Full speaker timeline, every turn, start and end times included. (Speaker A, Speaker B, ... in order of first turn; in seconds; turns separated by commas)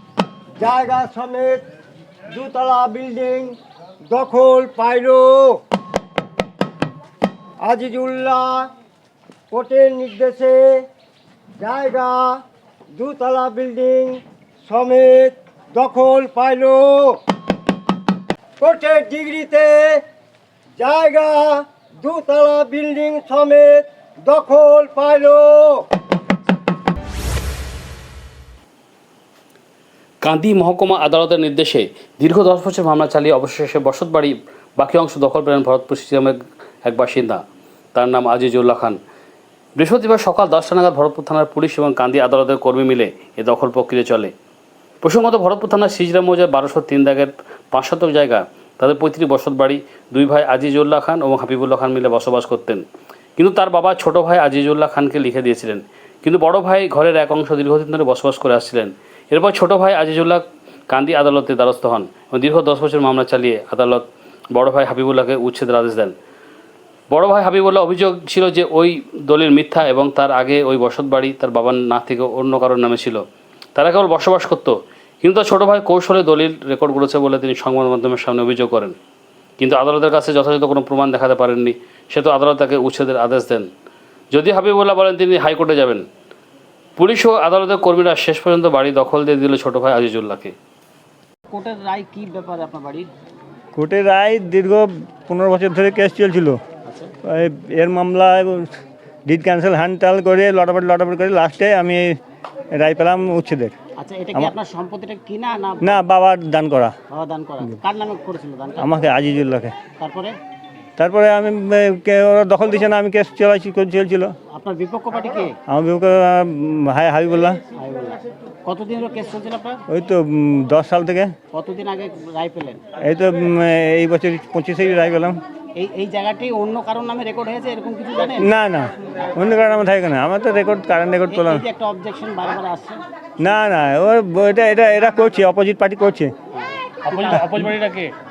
Speaker A: 0.6-1.6, Speaker A: 2.3-3.6, Speaker A: 4.1-5.6, Speaker A: 7.6-8.7, Speaker A: 9.5-10.8, Speaker A: 11.6-12.4, Speaker A: 12.9-17.2, Speaker A: 18.6-20.0, Speaker A: 20.8-25.9, Speaker B: 30.2-37.4, Speaker B: 37.9-39.0, Speaker B: 39.8-44.3, Speaker B: 45.0-52.8, Speaker B: 53.4-66.1, Speaker B: 67.1-73.2, Speaker B: 73.8-79.0, Speaker B: 79.6-83.7, Speaker B: 84.3-86.0, Speaker B: 87.0-90.5, Speaker C: 91.5-93.1, Speaker D: 93.7-96.6, Speaker C: 96.8-97.1, Speaker D: 97.2-98.7, Speaker D: 99.3-102.2, Speaker D: 102.7-103.7, Speaker C: 104.0-106.0, Speaker D: 105.8-106.9, Speaker C: 107.1-109.0, Speaker D: 108.8-109.7, Speaker C: 110.0-110.3, Speaker D: 111.0-114.3, Speaker C: 114.5-115.5, Speaker D: 115.7-117.6, Speaker C: 117.8-119.8, Speaker D: 119.9-121.3, Speaker C: 121.5-122.8, Speaker D: 123.0-125.4, Speaker C: 125.8-128.5, Speaker D: 128.4-131.6, Speaker C: 131.3-133.0, Speaker D: 133.4-136.3, Speaker B: 137.1-138.1, Speaker C: 137.1-137.4